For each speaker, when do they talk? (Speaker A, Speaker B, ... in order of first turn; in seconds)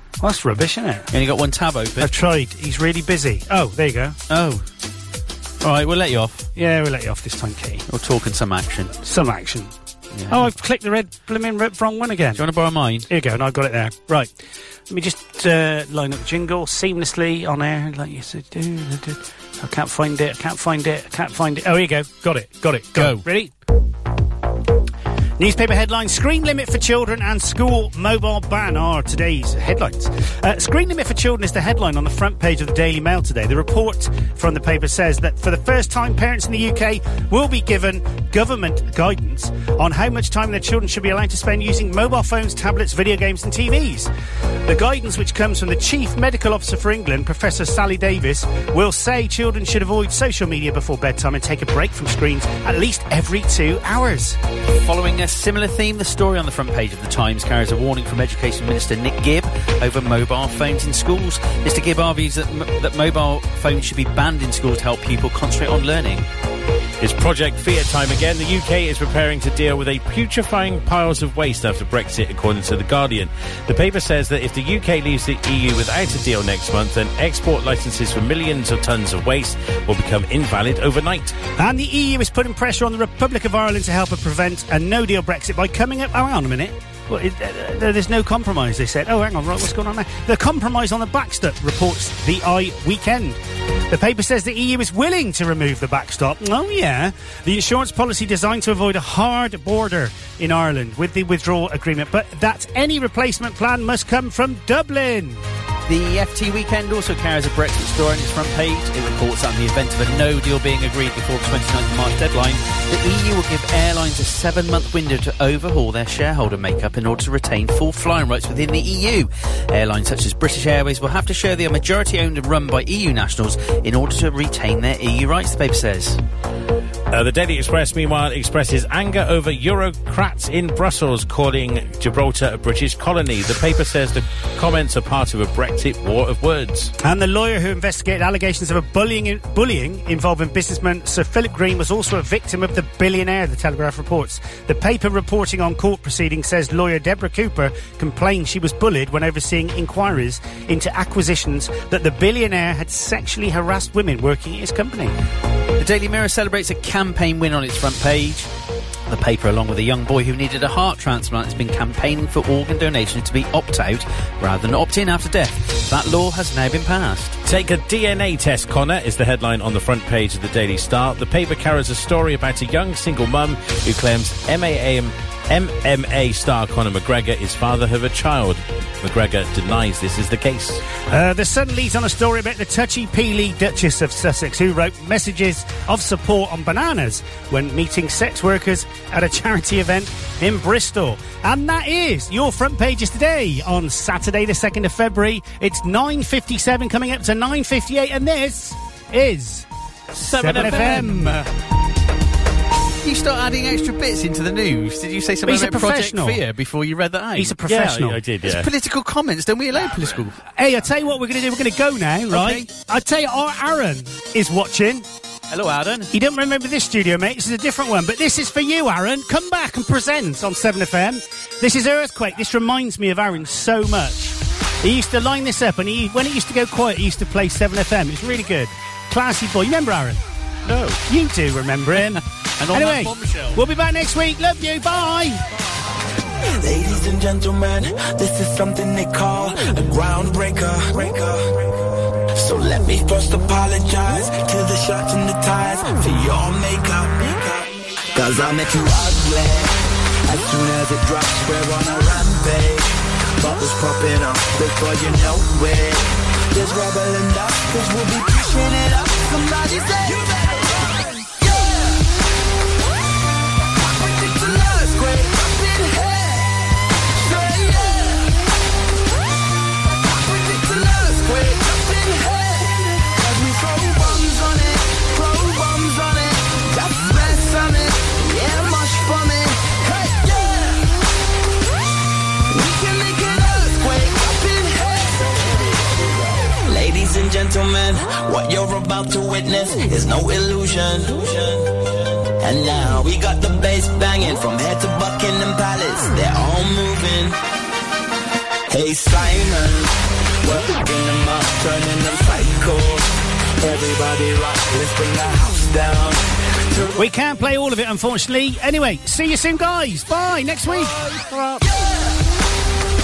Speaker A: 0.2-1.1, 2.0-4.2, 6.6-7.9, 9.0-9.7, 10.3-12.4, 13.1-23.6, 25.4-44.1, 44.6-54.4, 81.6-105.5, 137.0-155.2, 181.1-199.7, 200.2-201.5, 205.4-206.4, 207.4-208.2, 210.5-215.1, 216.1-230.2, 231.1-235.5, 307.0-311.2
Speaker B: 1.1-2.1, 4.3-4.7, 5.6-6.5, 7.9-8.9, 10.1-10.5, 12.3-13.1, 22.9-23.2, 54.8-66.3, 105.9-126.2, 155.8-158.5, 159.1-167.4, 203.0-207.6, 208.4-210.4, 212.3-212.7, 215.5-216.1, 230.7-231.0, 232.6-233.6
Speaker C: 67.0-81.4, 127.1-136.9, 167.4-180.8, 200.2-201.3, 207.7-208.7, 311.2-311.6
Speaker D: 236.4-241.6, 242.3-261.9, 263.9-268.5, 269.9-280.9, 282.5-297.4, 298.7-307.0